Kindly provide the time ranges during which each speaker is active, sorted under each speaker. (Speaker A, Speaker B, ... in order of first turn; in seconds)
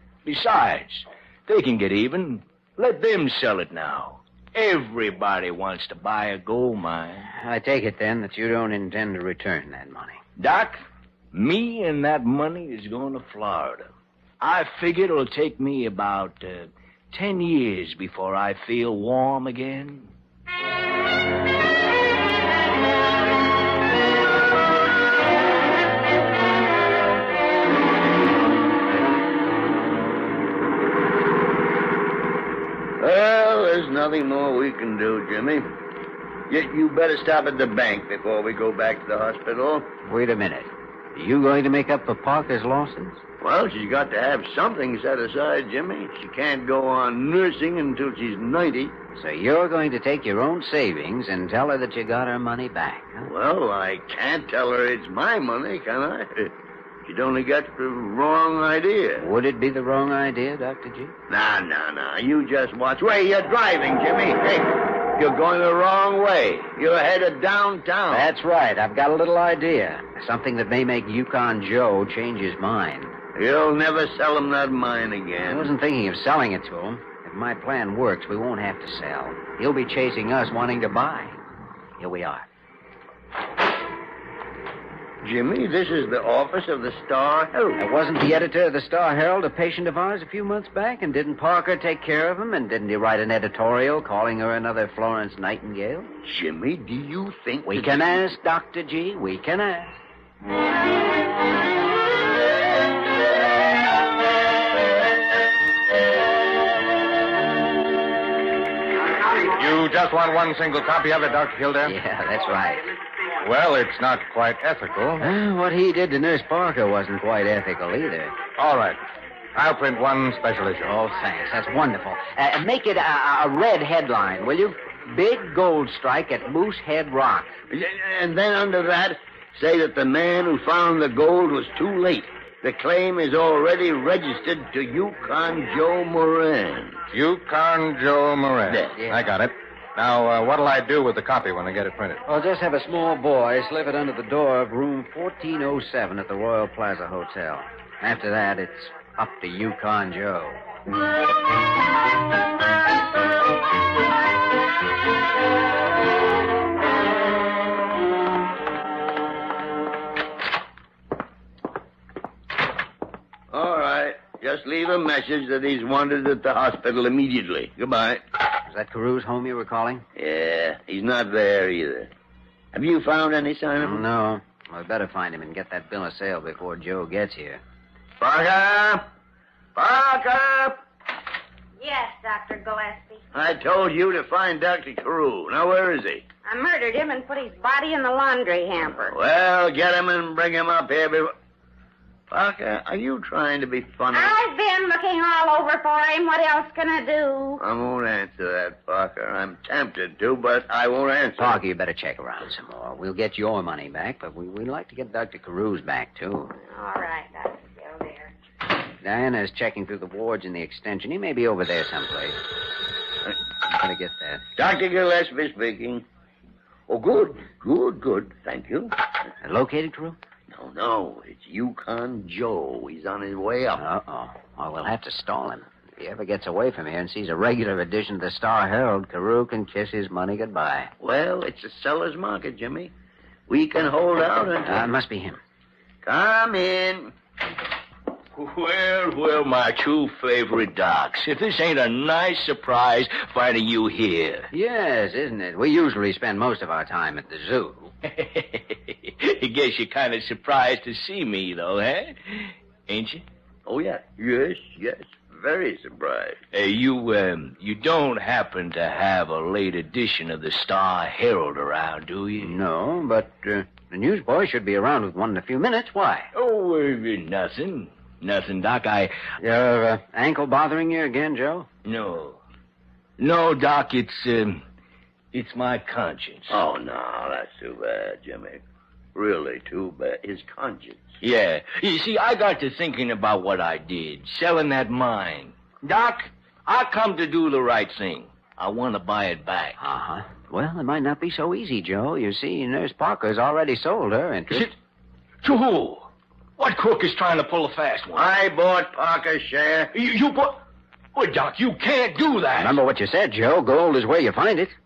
Speaker A: 0.2-7.3, 10.4-20.1, 238.3-244.5, 248.0-253.2, 256.5-262.6, 266.3-269.1, 271.8-272.4, 273.2-274.6, 275.3-276.5, 281.2-289.8, 295.4-298.3, 299.9-300.6, 301.1-302.8
Speaker B: 7.3-10.2, 40.0-43.2, 49.1-53.3, 59.2-61.1, 68.1-73.2, 75.4-81.4, 82.0-82.5, 87.8-96.1, 97.7-99.9, 111.8-112.9, 115.2-118.3, 120.8-127.5, 138.9-139.3, 142.2-150.6, 168.7-170.0, 173.8-177.6, 201.4-206.5, 209.0-212.4, 213.7-214.4, 219.4-220.2, 223.7-230.9, 234.6-235.4, 244.5-247.9, 262.4-266.3, 269.4-271.7, 289.8-294.7, 302.5-304.7
Speaker C: 33.0-35.7, 36.5-39.9, 43.4-49.0, 53.2-56.5, 57.0-59.3, 61.3-68.3, 73.3-75.7, 85.2-87.8, 96.2-98.3, 127.7-137.0, 138.7-139.0, 163.5-168.2, 170.2-172.1, 172.7-174.0, 178.2-179.0, 179.7-180.8, 183.3-186.2, 189.0-191.3, 192.3-194.4, 197.6-201.6, 214.6-216.0, 216.9-218.9, 220.5-223.8, 231.0-232.9, 233.5-234.9, 236.0-237.1, 253.7-256.4, 276.5-278.6, 279.1-281.1, 298.1-299.9
Speaker D: 109.3-112.0, 113.4-115.3, 118.6-119.0, 119.5-121.0, 137.1-142.2
Speaker E: 181.8-183.2, 186.4-189.2, 194.1-197.6, 206.6-208.3